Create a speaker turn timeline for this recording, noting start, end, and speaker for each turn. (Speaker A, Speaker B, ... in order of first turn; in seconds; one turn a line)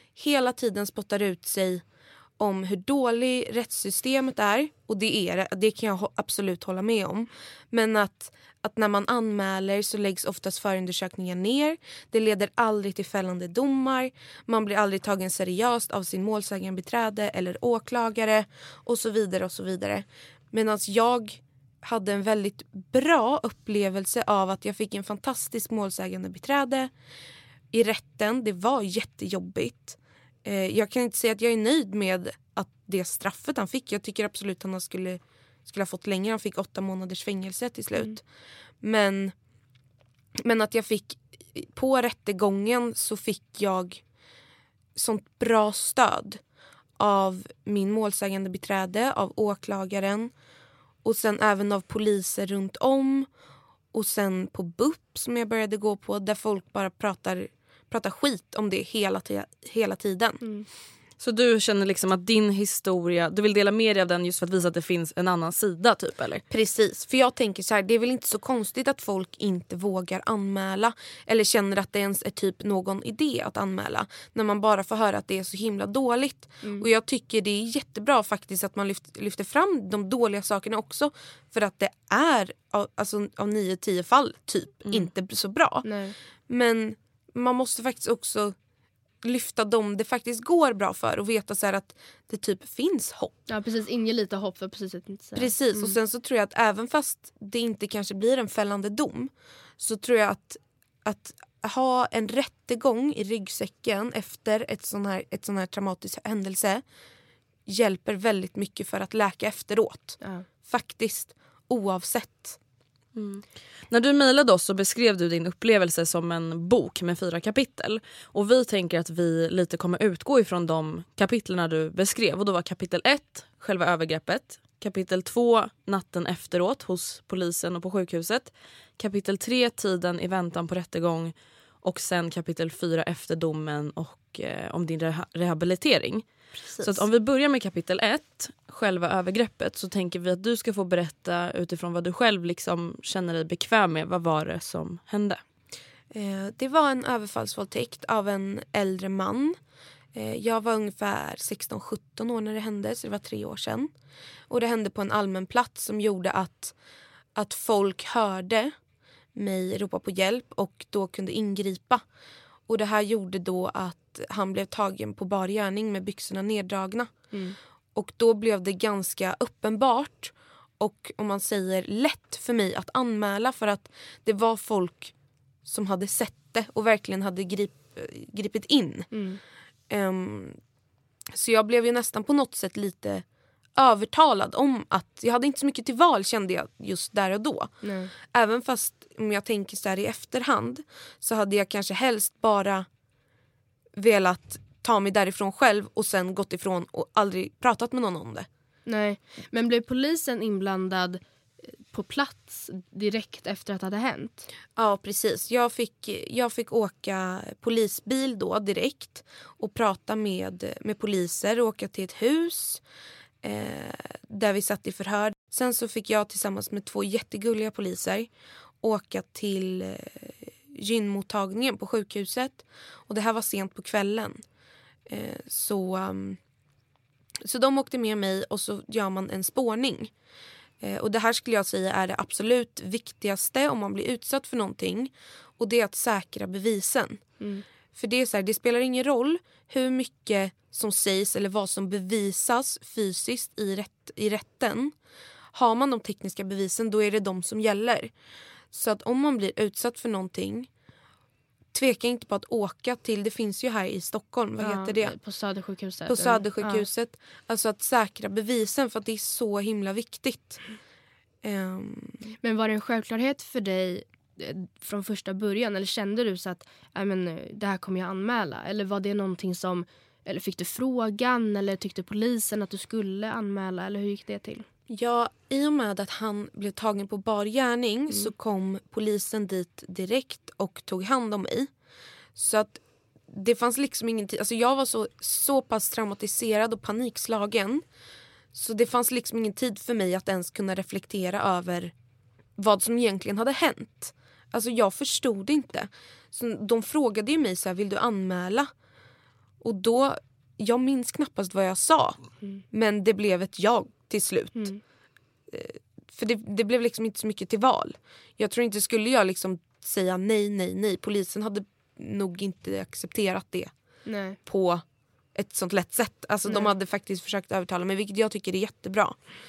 Speaker A: 0.2-1.8
Speaker A: 2.4-26.9
Speaker A: 27.7-38.2
Speaker A: 38.8-39.3
Speaker A: 40.4-44.0
Speaker A: 45.0-46.4
Speaker A: 47.0-50.3
Speaker A: 51.0-53.3
Speaker A: 53.9-60.4
Speaker B: 60.4-60.7
Speaker C: 61.2-66.4
Speaker A: 66.5-85.9
Speaker B: 76.6-76.9
Speaker B: 85.8-86.2
Speaker A: 86.5-88.5
Speaker A: 89.2-93.4
Speaker B: 93.5-96.0
Speaker A: 95.4-106.8
Speaker A: 107.7-112.6
Speaker B: 110.2-110.5
Speaker C: 113.2-136.3
Speaker A: 136.6-137.0
Speaker C: 136.8-145.4
Speaker A: 146.1-149.6
Speaker A: 150.2-153.9
Speaker A: 154.5-156.7
Speaker A: 157.4-158.8
Speaker A: 159.3-162.0
Speaker A: 162.7-167.3
Speaker B: 167.3-167.6
Speaker A: 167.9-175.1
Speaker A: 175.7-179.1
Speaker B: 179.1-179.4
Speaker A: 179.9-180.6
Speaker A: 181.3-183.2
Speaker A: 183.8-192.9
Speaker B: 187.8-188.1
Speaker A: 194.0-198.5
Speaker B: 198.9-201.2
Speaker B: 201.9-204.5
Speaker A: 204.8-212.8
Speaker A: 213.4-218.3
Speaker A: 218.8-224.4
Speaker A: 225.1-226.4
Speaker A: 227.4-230.1
Speaker A: 230.8-237.2
Speaker B: 237.4-237.7
Speaker A: 237.9-244.9
Speaker A: 245.5-248.1
Speaker A: 248.7-250.7
Speaker A: 251.7-255.2
Speaker B: 254.6-256.9
Speaker A: 256.1-260.6
Speaker A: 261.4-262.2
Speaker B: 262.4-274.7
Speaker A: 274.9-281.7
Speaker A: 282.4-287.8
Speaker A: 288.5-291.9
Speaker A: 292.6-298.7
Speaker A: 299.6-302.2
Speaker A: 302.7-304.7
Speaker B: 304.6-304.8
Speaker A: 305.5-313.7
Speaker B: 314.1-314.4
Speaker A: 314.5-314.8
Speaker A: 315.4-319.2
Speaker B: 316.5-316.7